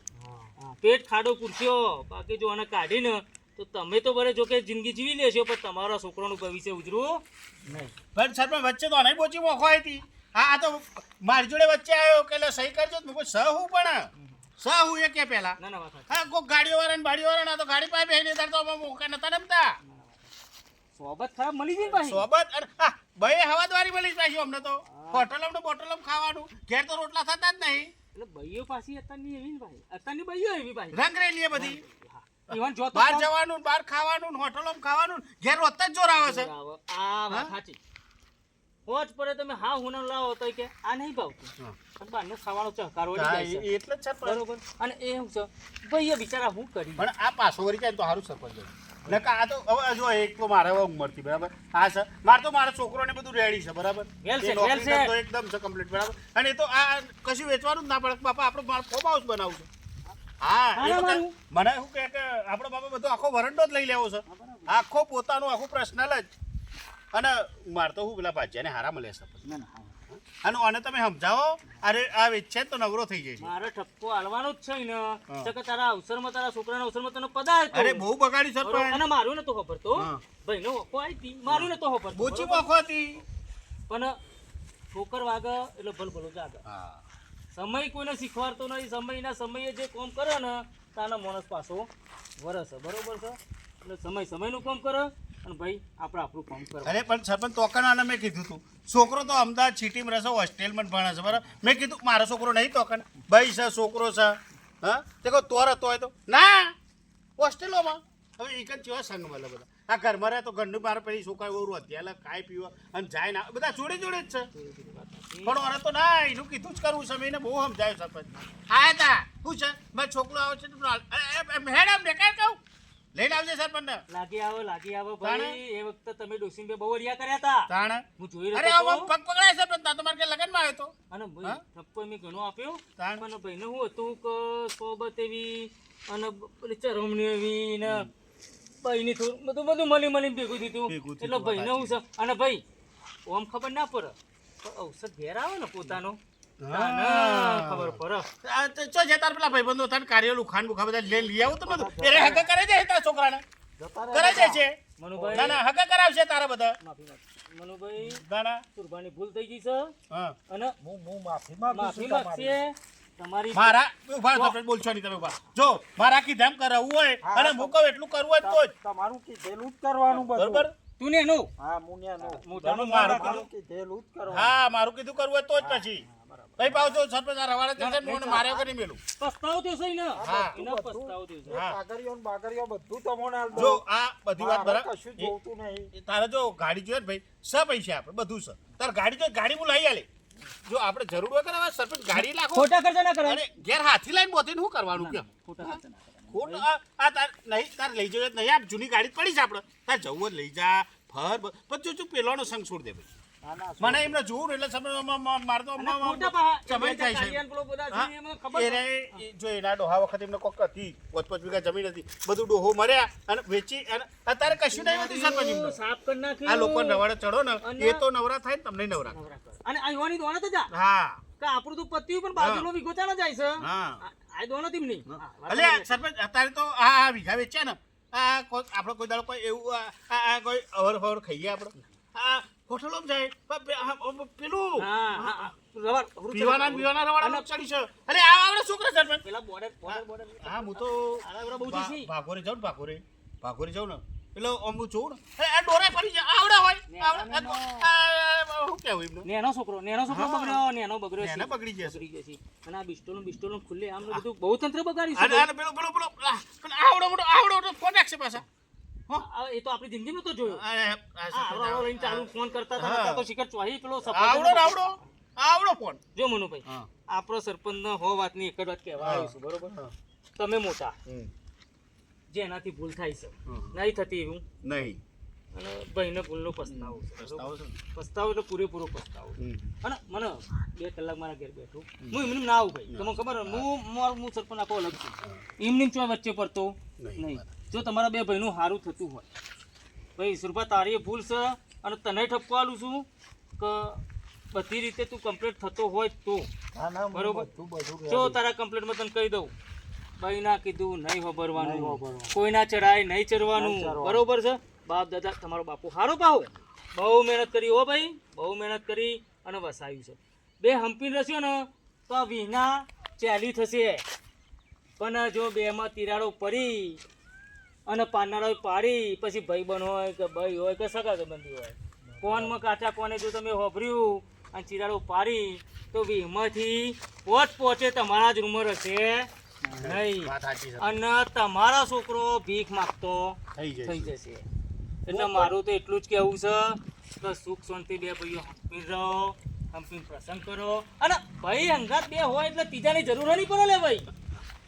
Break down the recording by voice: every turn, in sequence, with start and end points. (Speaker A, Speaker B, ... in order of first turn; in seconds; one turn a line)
Speaker A: 0.2-0.4
Speaker B: 0.6-8.0
Speaker C: 8.1-15.6
Speaker B: 15.6-16.2
Speaker C: 16.1-19.8
Speaker B: 19.8-20.2
Speaker B: 21.0-22.3
Speaker C: 21.8-27.9
Speaker B: 24.9-25.3
Speaker B: 28.1-31.0
Speaker C: 30.9-31.8
Speaker B: 31.5-33.3
Speaker C: 32.5-36.5
Speaker B: 36.2-37.8
Speaker B: 38.9-43.7
Speaker C: 43.1-44.4
Speaker B: 44.2-47.1
Speaker C: 47.0-59.7
Speaker B: 54.2-55.1
Speaker C: 60.4-66.3
Speaker B: 60.8-61.3
Speaker B: 64.3-64.8
Speaker C: 67.1-69.5
Speaker B: 69.4-70.0
Speaker C: 70.1-73.5
Speaker B: 73.4-78.0
Speaker C: 77.7-79.0
Speaker B: 78.6-82.7
Speaker C: 80.0-80.2
Speaker C: 81.5-83.2
Speaker B: 83.9-84.1
Speaker B: 84.9-86.6
Speaker C: 86.7-87.0
Speaker B: 87.5-91.9
Speaker B: 92.4-97.1
Speaker C: 96.8-106.7
Speaker C: 107.4-114.5
Speaker B: 114.5-115.6
Speaker C: 115.5-122.6
Speaker C: 123.2-124.0
Speaker B: 124.1-129.1
Speaker C: 125.2-125.6
Speaker C: 127.7-130.9
Speaker B: 131.1-138.1
Speaker C: 133.0-133.2
Speaker B: 138.8-142.6
Speaker C: 140.9-142.0
Speaker B: 143.3-146.2
Speaker C: 146.6-153.4
Speaker B: 146.7-148.3
Speaker A: 151.5-152.5
Speaker A: 153.8-154.6
Speaker C: 154.1-154.8
Speaker B: 155.0-155.6
Speaker A: 155.2-155.6
Speaker C: 155.3-156.8
Speaker B: 156.8-158.2
Speaker C: 158.0-158.6
Speaker B: 158.8-159.9
Speaker C: 160.1-160.4
Speaker B: 160.5-160.8
Speaker A: 160.8-162.6
Speaker B: 161.7-163.8
Speaker C: 163.5-168.7
Speaker A: 167.2-167.8
Speaker A: 168.4-170.7
Speaker C: 170.3-170.7
Speaker B: 171.0-171.5
Speaker A: 171.6-174.6
Speaker B: 172.4-173.4
Speaker C: 172.5-173.5
Speaker C: 174.3-176.1
Speaker B: 175.6-176.9
Speaker C: 176.6-179.0
Speaker B: 177.8-178.4
Speaker A: 178.3-178.7
Speaker B: 179.2-181.6
Speaker A: 180.2-183.8
Speaker C: 180.2-180.6
Speaker C: 181.5-181.8
Speaker B: 183.5-183.8
Speaker C: 183.6-185.3
Speaker A: 184.4-185.9
Speaker C: 185.9-190.1
Speaker C: 190.7-192.7
Speaker B: 192.1-193.4
Speaker C: 193.2-195.8
Speaker B: 194.9-196.7
Speaker C: 196.3-203.1
Speaker A: 203.4-204.2
Speaker C: 203.8-207.4
Speaker B: 205.8-209.2
Speaker C: 207.9-215.8
Speaker B: 214.5-217.0
Speaker C: 216.5-219.2
Speaker B: 217.6-218.0
Speaker B: 219.1-220.7
Speaker C: 220.7-221.2
Speaker B: 221.4-226.0
Speaker C: 222.4-222.7
Speaker C: 223.6-224.0
Speaker C: 225.1-235.5
Speaker B: 234.8-237.5
Speaker C: 236.3-239.2
Speaker B: 239.2-242.1
Speaker C: 239.9-249.3
Speaker B: 246.9-247.9
Speaker B: 249.2-255.5
Speaker C: 250.1-250.6
Speaker C: 251.2-252.0
Speaker C: 255.2-258.4
Speaker B: 259.2-260.6
Speaker C: 260.5-263.2
Speaker B: 261.3-265.1
Speaker C: 264.1-266.0
Speaker B: 266.1-269.8
Speaker C: 269.0-269.9
Speaker B: 270.4-271.0
Speaker B: 272.3-274.4
Speaker C: 273.5-273.8
Speaker C: 274.6-275.0
Speaker B: 275.5-289.3
Speaker C: 276.7-277.8
Speaker C: 279.4-279.7
Speaker C: 282.0-282.3
Speaker C: 282.9-283.7
Speaker C: 287.0-287.5
Speaker B: 290.2-293.1
Speaker B: 293.6-294.0
Speaker B: 294.5-296.5
Speaker A: 296.7-298.4
Speaker B: 297.1-297.5
Speaker B: 298.1-299.5
Speaker B: 300.2-314.0
Speaker A: 301.6-302.4
Speaker A: 303.5-304.3
Speaker B: 315.0-317.0
Speaker B: 317.9-334.5
Speaker A: 322.1-322.6
Speaker C: 329.8-331.0
Speaker C: 333.6-334.1
Speaker B: 335.1-344.1
Speaker C: 335.1-335.5